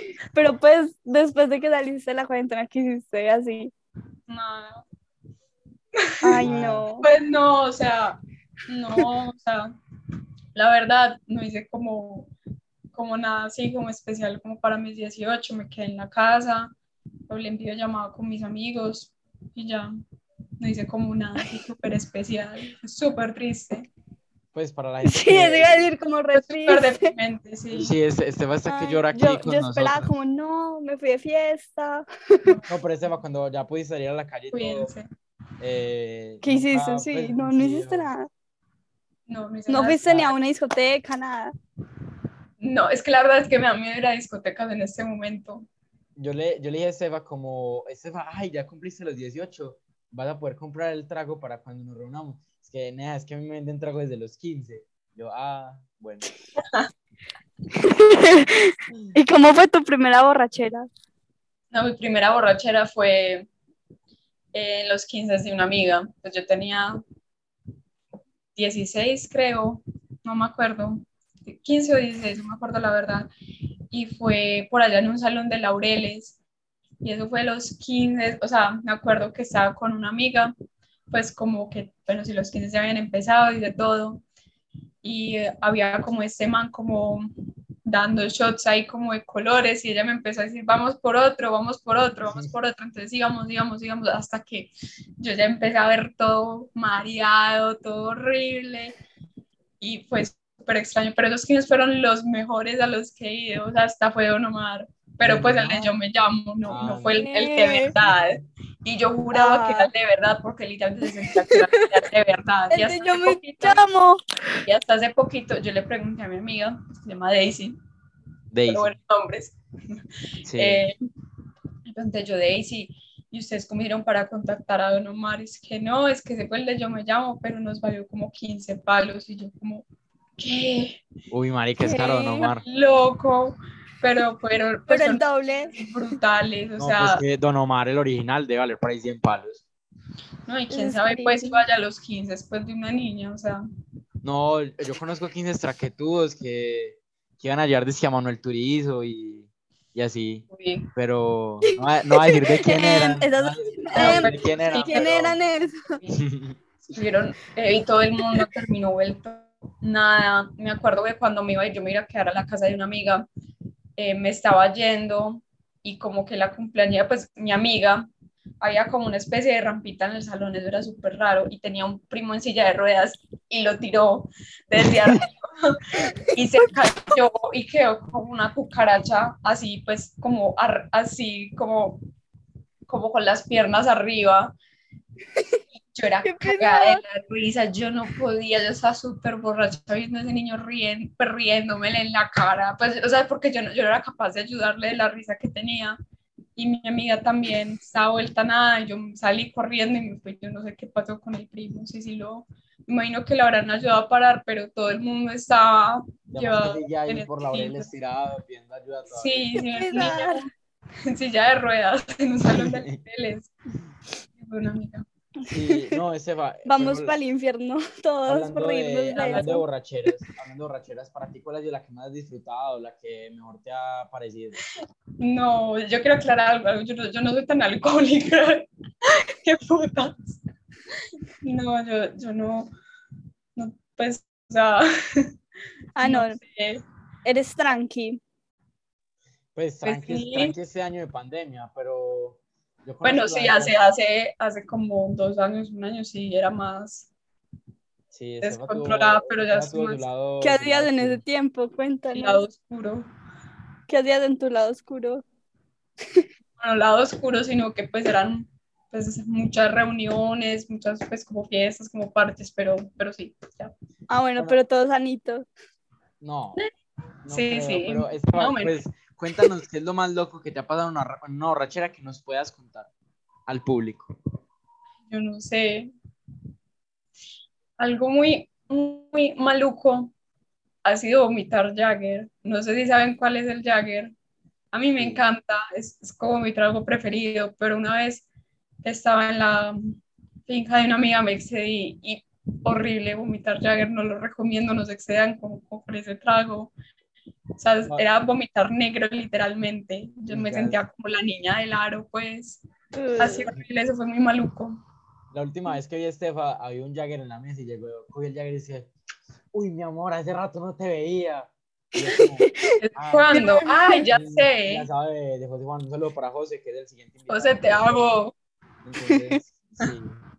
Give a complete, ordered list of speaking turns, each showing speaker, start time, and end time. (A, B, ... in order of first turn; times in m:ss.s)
0:00.3-0:03.7 A
0:04.3-0:04.8 B
0:06.2-0:07.1 A
0:06.4-0:06.9 C
0:07.0-0:09.8 B
0:10.6-0:12.3 B
0:12.9-0:16.7 B
0:17.3-0:19.9 B
0:20.6-0:23.9 B
0:24.5-0:25.9 C
0:25.0-0:27.0 A
0:26.4-0:28.0 B
0:27.7-0:30.1 C
0:28.7-0:32.6 A
0:32.7-0:34.9 C
0:34.5-0:35.1 B
0:35.6-0:38.1 C
0:36.4-0:38.3 A
0:39.3-0:40.3 B
0:39.7-0:41.6 A
0:42.6-0:45.7 B
0:46.2-0:56.3 C
0:57.8-1:00.9 A
1:01.7-1:03.5 B
1:04.5-1:07.0 B
1:08.6-1:13.3 B
1:13.9-1:16.4 B
1:17.0-1:20.5 B
1:21.1-1:24.2 B
1:25.0-1:27.3 B
1:27.9-1:39.0 B
1:39.8-1:53.8 B
1:45.2-1:45.9 C
1:46.7-1:47.3 C
1:47.2-1:47.9 A
1:47.9-1:48.2 C
1:49.3-1:49.9 A
1:51.5-1:51.8 A
1:52.7-1:54.2 A
1:54.6-1:57.8 B
1:58.5-1:58.9 C
1:58.7-1:59.6 B
2:00.4-2:00.9 C
2:00.6-2:00.9 B
2:01.9-2:09.9 B
2:10.4-2:11.0 B
2:11.3-2:12.6 C
2:11.8-2:12.5 A
2:12.4-2:17.2 B
2:14.9-2:15.8 A
2:16.8-2:19.6 C
2:20.5-2:23.6 B
2:20.7-2:21.6 A
2:24.2-2:35.4 C
2:30.5-2:30.9 B
2:31.7-2:35.9 A
2:33.9-2:35.2 B
2:35.9-2:36.2 B
2:36.1-2:36.6 C
2:36.9-2:43.3 B
2:44.0-2:48.1 B
2:48.6-2:55.7 B
2:56.3-3:02.0 B
3:02.9-3:04.6 B
3:05.9-3:16.0 B
3:06.2-3:07.0 A
3:16.6-3:27.9 B
3:26.3-3:29.4 C
3:29.1-3:30.5 B
3:29.6-3:30.4 A
3:31.1-3:33.5 B
3:32.5-3:33.0 C
3:34.4-3:35.1 B
3:35.5-3:37.2 C
3:36.7-3:39.6 A
3:38.3-3:44.6 C
3:39.2-3:39.5 B
3:45.2-3:48.7 B
3:49.4-3:50.4 B
3:51.4-3:52.7 B
3:53.6-3:54.8 B
3:56.0-3:56.4 A
3:56.0-3:56.8 B
3:57.2-3:58.2 A
3:59.6-4:03.9 C
3:59.8-4:00.6 B
4:03.0-4:07.1 B
4:08.1-4:11.2 C
4:08.4-4:10.1 B
4:10.4-4:12.4 A
4:12.1-4:13.1 B
4:13.9-4:15.2 A
4:16.6-4:23.7 B
4:24.1-4:25.5 A
4:26.2-4:26.6 C
4:27.2-4:32.9 C
4:27.3-4:28.8 B
4:33.5-4:34.1 C
4:35.1-4:35.9 B
4:37.8-4:40.1 B
4:40.8-4:44.1 B
4:44.7-4:48.3 B
4:45.0-4:45.2 C
4:48.8-4:50.0 B
4:50.5-4:56.7 B
4:57.6-5:02.6 B
5:00.3-5:00.8 C
5:03.0-5:03.5 A
5:03.2-5:04.8 B
5:05.3-5:08.9 C
5:09.5-5:13.4 C
5:12.2-5:12.5 A
5:12.8-5:14.9 B
5:13.3-5:14.0 A
5:14.1-5:18.1 C
5:17.3-5:18.3 B
5:18.8-5:20.2 C